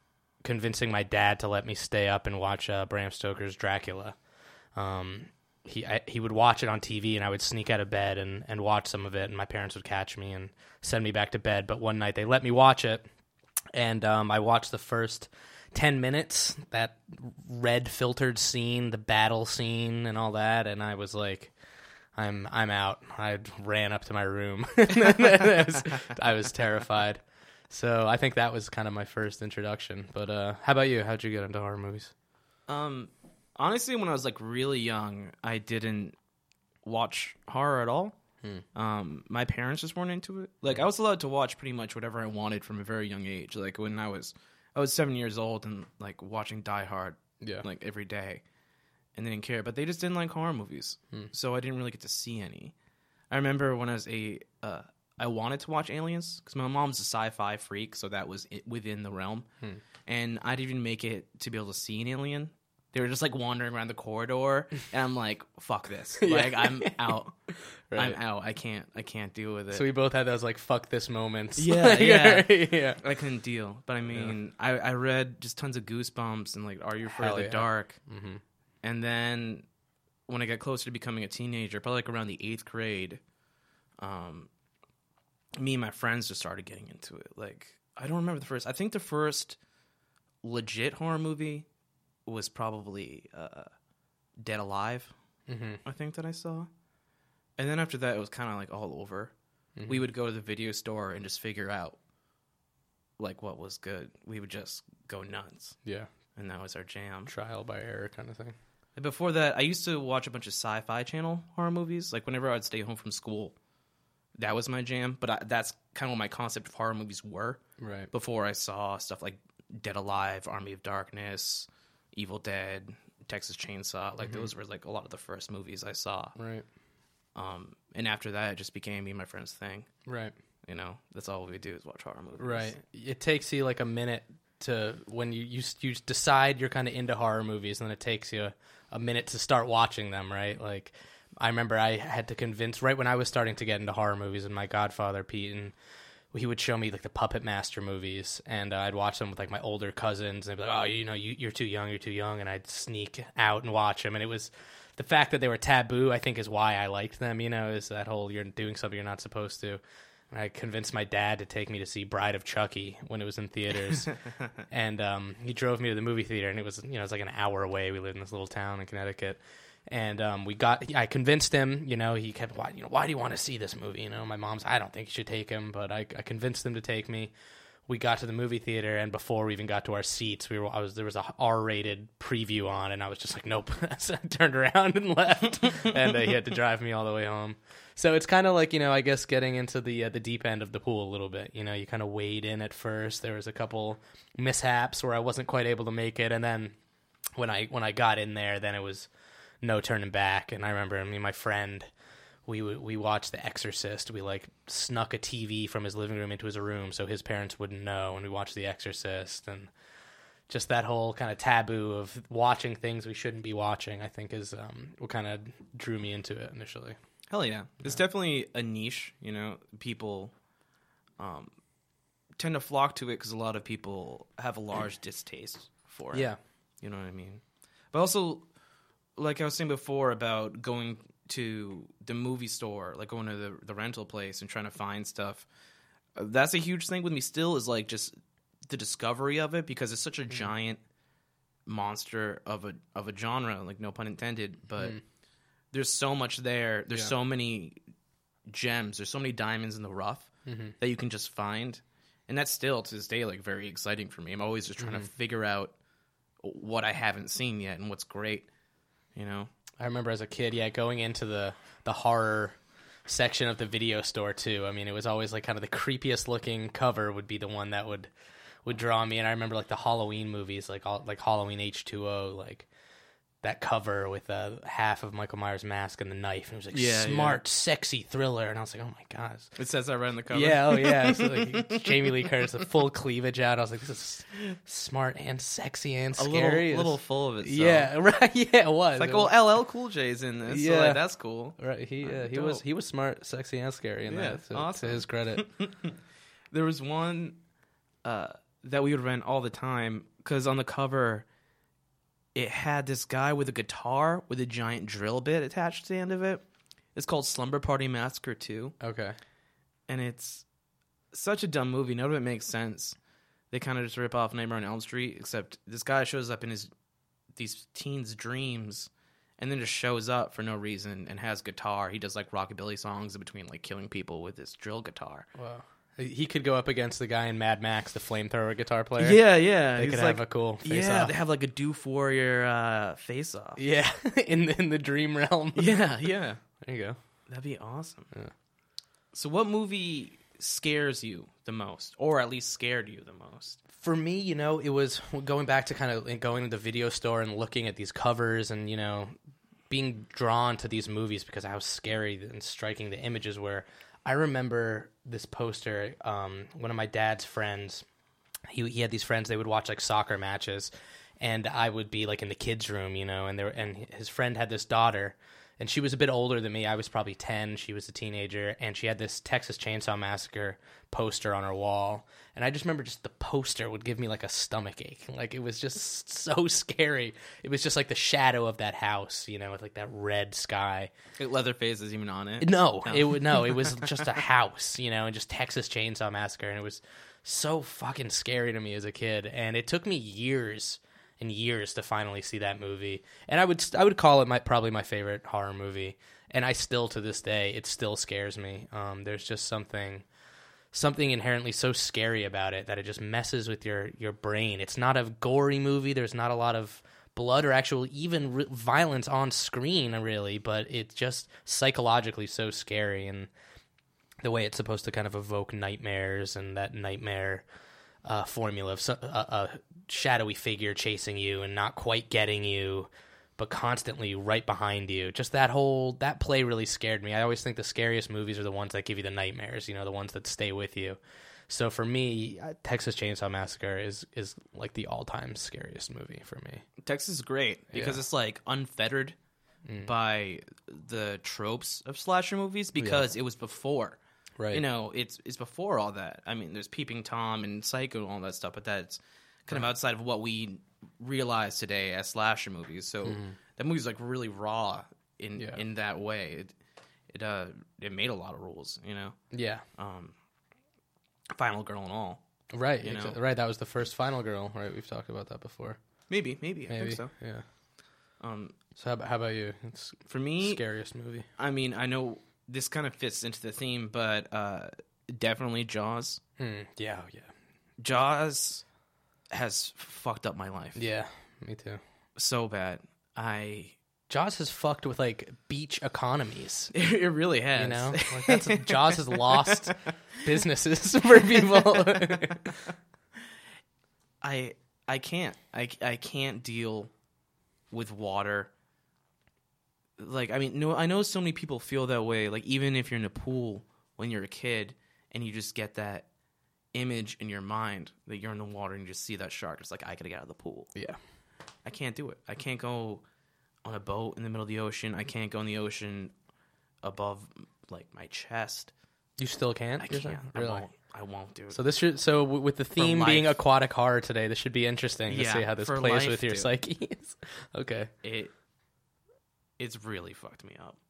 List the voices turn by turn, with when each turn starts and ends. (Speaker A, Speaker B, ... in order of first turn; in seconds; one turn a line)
Speaker A: 0.4-4.2
Speaker A: 4.8-13.1
Speaker A: 13.7-21.5
Speaker A: 22.2-32.1
Speaker B: 32.7-36.1
Speaker B: 36.8-38.2
Speaker B: 38.8-48.4
Speaker A: 47.4-47.7
Speaker B: 49.1-52.7
Speaker B: 53.3-59.5
Speaker B: 60.1-67.3
Speaker A: 66.2-67.2
Speaker A: 67.9-68.2
Speaker B: 67.9-69.9
Speaker A: 69.7-73.0
Speaker B: 71.6-78.0
Speaker A: 74.1-74.3
Speaker A: 77.0-78.4
Speaker B: 78.8-79.7
Speaker B: 80.3-83.2
Speaker B: 84.0-84.5
Speaker B: 85.5-89.6
Speaker B: 90.4-91.7
Speaker B: 92.3-93.7
Speaker B: 94.4-95.1
Speaker A: 95.5-95.8
Speaker B: 95.8-96.7
Speaker B: 97.6-99.3
Speaker A: 99.8-100.0
Speaker B: 99.9-102.0
Speaker B: 103.2-105.8
Speaker B: 106.3-107.3
Speaker A: 107.3-108.5
Speaker B: 109.0-113.5
Speaker B: 114.4-117.6
Speaker A: 117.8-118.1
Speaker B: 118.1-126.3
Speaker A: 124.2-124.5
Speaker A: 126.3-126.7
Speaker B: 127.3-129.9
Speaker A: 130.1-130.3
Speaker B: 130.7-132.7
Speaker A: 132.4-145.7
Speaker A: 146.3-164.1
Speaker A: 164.7-177.3
Speaker A: 177.9-196.8
Speaker A: 197.4-199.1
Speaker A: 199.6-201.9
Speaker A: 202.5-209.7
Speaker A: 210.5-217.0
Speaker B: 217.3-220.3
Speaker B: 221.2-221.5
Speaker B: 222.4-226.3
Speaker A: 226.1-226.4
Speaker B: 226.8-228.5
Speaker B: 229.2-235.5
Speaker B: 236.2-238.2
Speaker B: 238.7-240.8
Speaker B: 241.7-245.0
Speaker A: 244.7-245.0
Speaker B: 245.7-247.8
Speaker B: 248.5-255.7
Speaker A: 250.5-250.7
Speaker A: 254.8-255.1
Speaker B: 256.4-258.5
Speaker B: 259.1-259.5
Speaker A: 259.8-268.1
Speaker A: 268.6-272.7
Speaker A: 273.4-279.5
Speaker B: 276.7-277.4
Speaker B: 279.6-282.4
Speaker A: 280.3-289.3
Speaker B: 286.1-287.9
Speaker B: 289.0-292.6
Speaker A: 290.5-291.0
Speaker A: 291.5-295.5
Speaker B: 294.1-295.9
Speaker B: 296.5-297.4
Speaker B: 298.0-301.2
Speaker B: 302.4-306.4
Speaker B: 306.9-308.8
Speaker A: 308.8-309.2
Speaker B: 309.9-310.4
Speaker B: 311.1-313.0
Speaker B: 313.5-316.7
Speaker B: 317.4-325.3
Speaker A: 325.4-331.1
Speaker B: 329.0-333.6
Speaker A: 333.6-335.9
Speaker B: 335.5-336.4
Speaker A: 336.6-337.0
Speaker B: 337.3-338.1
Speaker B: 339.1-343.6
Speaker A: 343.8-349.1
Speaker A: 349.7-357.9
Speaker A: 358.5-380.9
Speaker B: 381.2-384.0
Speaker A: 382.4-400.1
Speaker A: 400.7-413.3
Speaker A: 414.2-417.4
Speaker A: 418.0-436.6
Speaker B: 436.8-439.1
Speaker A: 437.7-438.0
Speaker A: 439.6-439.9
Speaker B: 439.8-444.0
Speaker A: 442.8-443.1
Speaker A: 444.4-444.6
Speaker B: 444.5-456.5
Speaker A: 453.0-453.4
Speaker A: 455.4-455.6
Speaker B: 457.1-459.2
Speaker A: 459.3-459.6
Speaker B: 459.8-460.1
Speaker B: 461.3-462.2
Speaker A: 462.5-465.8
Speaker B: 462.8-463.2
Speaker B: 466.1-467.1
Speaker A: 466.7-467.4
Speaker B: 468.2-468.5
Speaker A: 468.8-471.3
Speaker B: 470.1-470.6
Speaker B: 471.4-476.2
Speaker A: 476.4-477.3
Speaker B: 477.8-478.6
Speaker B: 479.3-480.8
Speaker A: 480.8-481.8
Speaker B: 482.1-483.8
Speaker A: 484.1-486.7
Speaker B: 486.7-489.7
Speaker A: 487.5-492.6
Speaker B: 491.8-492.4
Speaker B: 494.2-496.9
Speaker B: 497.7-498.5
Speaker B: 500.0-506.1
Speaker B: 506.7-510.7
Speaker B: 511.6-513.0
Speaker B: 513.6-516.1
Speaker B: 516.8-518.7
Speaker A: 519.2-520.7
Speaker B: 519.8-521.6
Speaker A: 521.5-527.9
Speaker B: 522.8-523.4
Speaker B: 525.1-526.5
Speaker B: 528.0-528.3
Speaker B: 529.6-530.8